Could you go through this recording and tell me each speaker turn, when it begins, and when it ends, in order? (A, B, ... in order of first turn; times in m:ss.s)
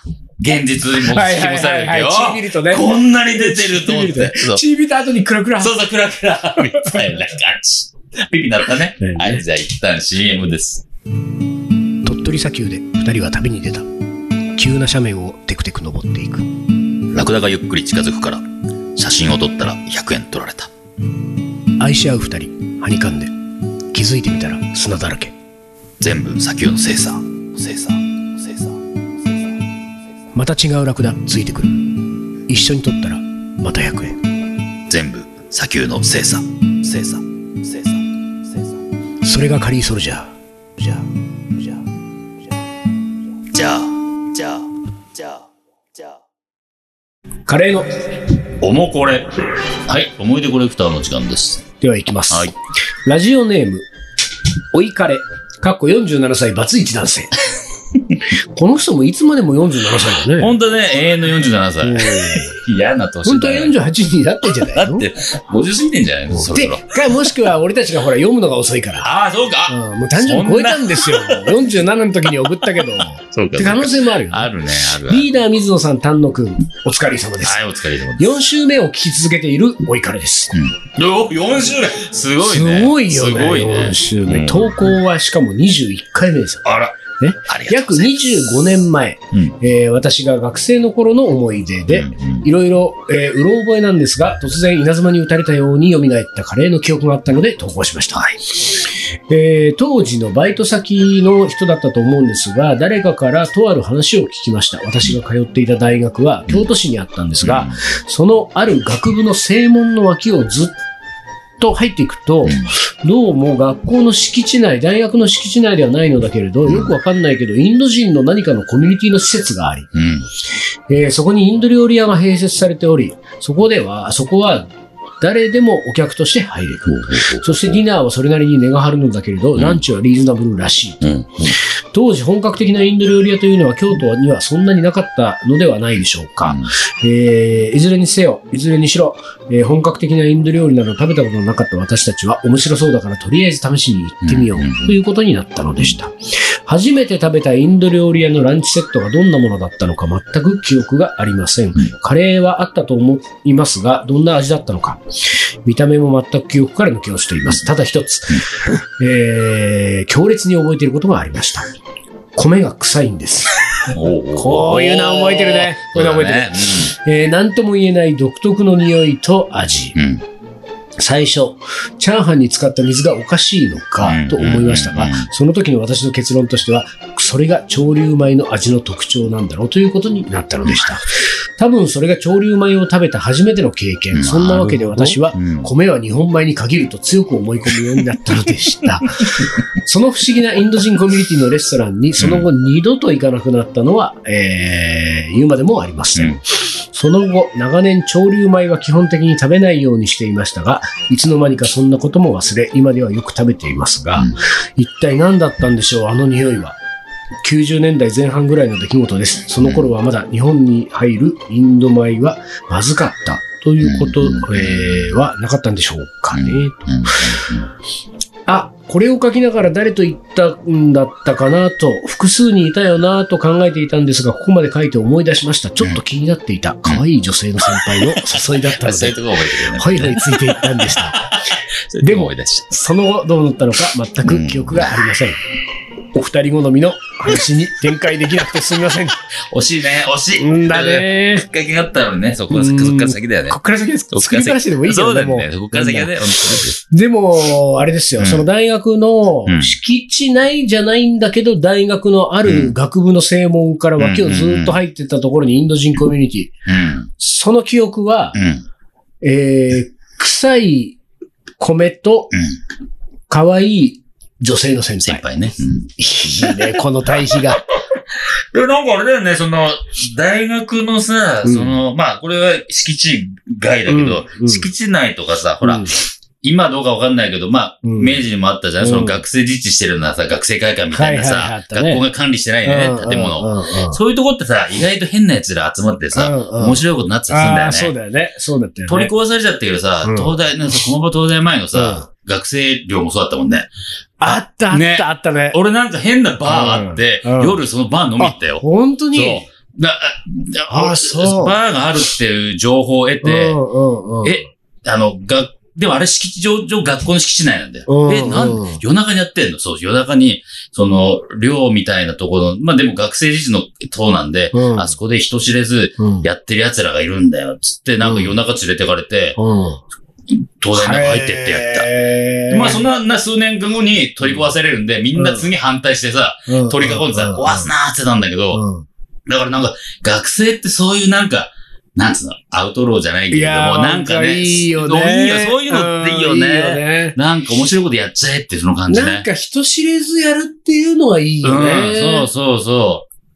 0:00.4-0:04.6 A
0:01.0-0:05.8 B
0:05.6-0:10.8 A
0:06.6-0:07.0 B
0:09.0-0:09.4 B
0:12.0-0:13.8 B
0:14.6-0:16.4 B
0:17.1-0:18.4 A
0:19.0-0:20.7 A
0:21.8-0:23.3 B
0:23.9-0:25.3 B
0:26.0-0:28.7 A
0:30.3-0:34.2 B
0:34.9-0:38.0 A
0:39.2-0:41.8 B
0:43.5-0:45.4 A
0:47.5-0:47.9 B
0:48.6-0:49.3 A
0:49.8-0:51.6 A
0:51.8-0:52.5 B
0:53.0-0:53.9 B
0:54.7-0:57.3 B
0:58.5-1:00.5 B
1:00.3-1:03.7 A
1:01.8-1:02.6 B
1:03.2-1:05.1 B
1:04.6-1:06.8 A
1:06.3-1:09.1 B
1:09.0-1:11.6 A
1:09.7-1:17.6 B
1:13.0-1:15.3 A
1:17.4-1:18.3 A
1:18.2-1:20.6 B
1:20.5-1:25.0 A
1:22.4-1:26.6 B
1:26.6-1:28.2 A
1:27.2-1:50.7 B
1:31.9-1:32.4 A
1:47.4-1:47.8 A
1:51.6-1:59.9 B
1:56.6-1:56.9 A
1:59.9-2:00.2 A
2:00.9-2:04.6 B
2:05.2-2:26.1 B
2:06.9-2:07.7 A
2:09.6-2:09.8 A
2:11.0-2:11.6 A
2:16.4-2:16.7 A
2:24.2-2:25.0 A
2:26.6-2:35.0 B
2:35.6-2:38.4 B
2:39.0-2:41.7 B
2:42.4-2:43.5 B
2:43.9-2:46.9 A
2:44.3-2:49.9 B
2:49.9-2:50.2 A
2:51.0-3:01.0 B
2:54.0-2:55.3 A
3:00.7-3:00.9 A
3:01.6-3:26.8 B
3:04.1-3:05.7 A
3:12.2-3:12.5 A
3:27.4-3:37.3 B
3:29.6-3:29.9 A
3:33.8-3:35.2 A
3:36.3-3:37.7 A
3:38.5-3:55.4 B
3:47.7-3:51.3 A
3:51.9-3:52.7 A
3:54.2-3:55.0 A
3:56.1-3:59.2 B
3:59.5-4:03.6 A
4:00.4-4:01.4 B
4:02.5-4:16.5 B
4:04.1-4:06.8 A
4:08.2-4:08.4 A
4:09.4-4:09.7 A
4:12.4-4:12.7 A
4:14.0-4:14.8 A
4:16.7-4:17.1 A
4:17.2-4:18.4 B
4:18.3-4:18.6 A
4:19.2-4:21.0 B
4:21.6-4:22.3 B
4:23.3-4:25.2 B
4:25.0-4:26.8 A
4:26.0-4:27.6 B
4:28.5-4:47.9 A
4:31.4-4:31.8 B
4:33.9-4:34.7 B
4:35.6-4:36.0 B
4:37.8-4:38.2 B
4:38.8-4:39.2 B
4:40.9-4:42.0 B
4:42.6-4:44.0 B
4:46.1-4:49.1 B
4:48.9-4:53.7 A
4:50.0-4:50.3 B
4:51.7-4:52.1 B
4:54.2-4:55.6 B
4:54.3-4:58.6 A
4:56.4-4:57.6 B
4:58.2-4:59.4 B
4:59.1-5:03.6 A
5:00.7-5:01.6 B
5:03.2-5:04.4 B
5:04.2-5:19.4 A
5:07.9-5:08.8 B
5:14.5-5:14.9 B
5:16.0-5:16.3 B
5:18.0-5:18.3 B
5:19.4-5:19.8 B
5:20.6-5:21.9 A
5:20.7-5:22.8 B
5:22.5-5:28.6 A
5:25.1-5:25.5 B
5:26.5-5:27.7 B
5:28.5-5:28.8 B
5:29.2-5:39.2 A
5:33.3-5:37.2 B
5:38.9-5:42.3 B
5:41.4-5:43.0 A